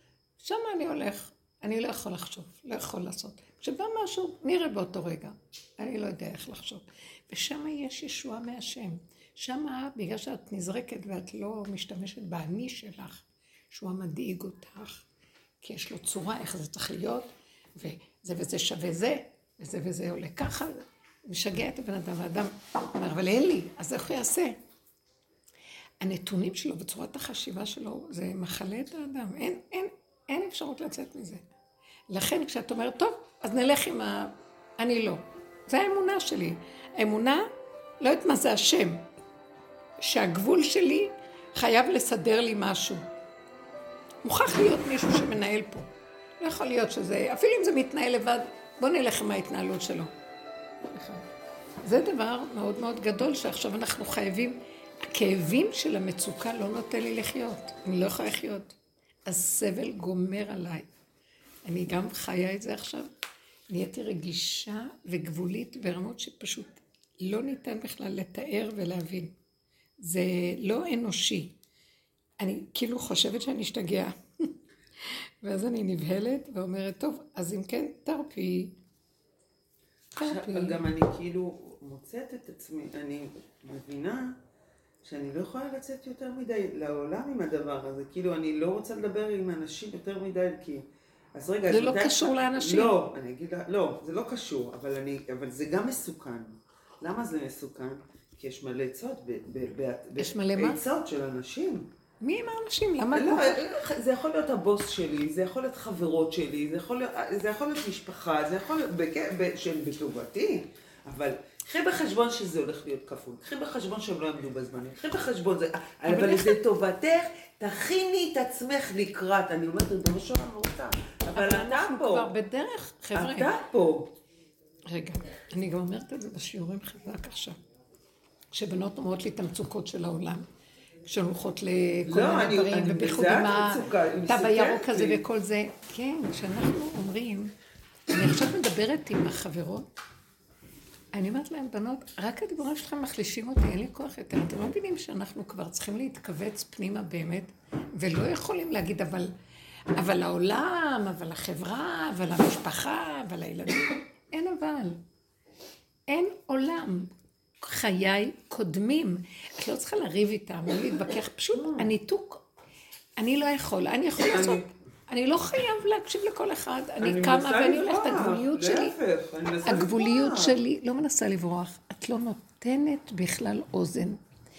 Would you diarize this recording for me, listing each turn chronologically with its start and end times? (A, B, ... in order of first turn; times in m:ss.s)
0:00.4-0:15.0 A
0:15.6-0:24.6 A
0:26.0-0:31.4 A
0:32.1-0:37.4 A
0:38.0-0:39.0 A
0:40.0-0:43.0 A
0:44.2-0:45.9 A
0:46.4-0:50.1 A
0:50.9-0:51.2 A
0:51.8-0:58.7 A
0:59.2-1:00.9 A
1:01.6-1:03.1 A
1:03.7-1:09.3 A
1:10.0-1:11.6 A
1:12.4-1:14.5 A
1:15.0-1:18.7 A
1:20.2-1:20.8 A
1:20.2-1:24.3 B
1:25.0-1:30.8 B
1:31.4-1:41.8 B
1:31.7-1:32.9 A
1:40.2-1:40.8 A
1:42.2-1:43.7 A
1:43.1-2:02.3 B
1:56.0-1:56.6 A
2:01.3-2:03.5 A
2:03.1-2:04.1 B
2:04.9-2:07.6 A
2:08.5-2:10.4 A
2:11.0-2:17.5 A
2:12.0-2:15.2 B
2:18.1-2:19.9 A
2:21.1-2:29.3 A
2:29.9-2:35.0 A
2:36.1-2:42.4 A
2:43.2-2:48.9 A
2:44.3-2:44.6 B
2:47.0-2:50.6 B
2:49.6-2:54.2 A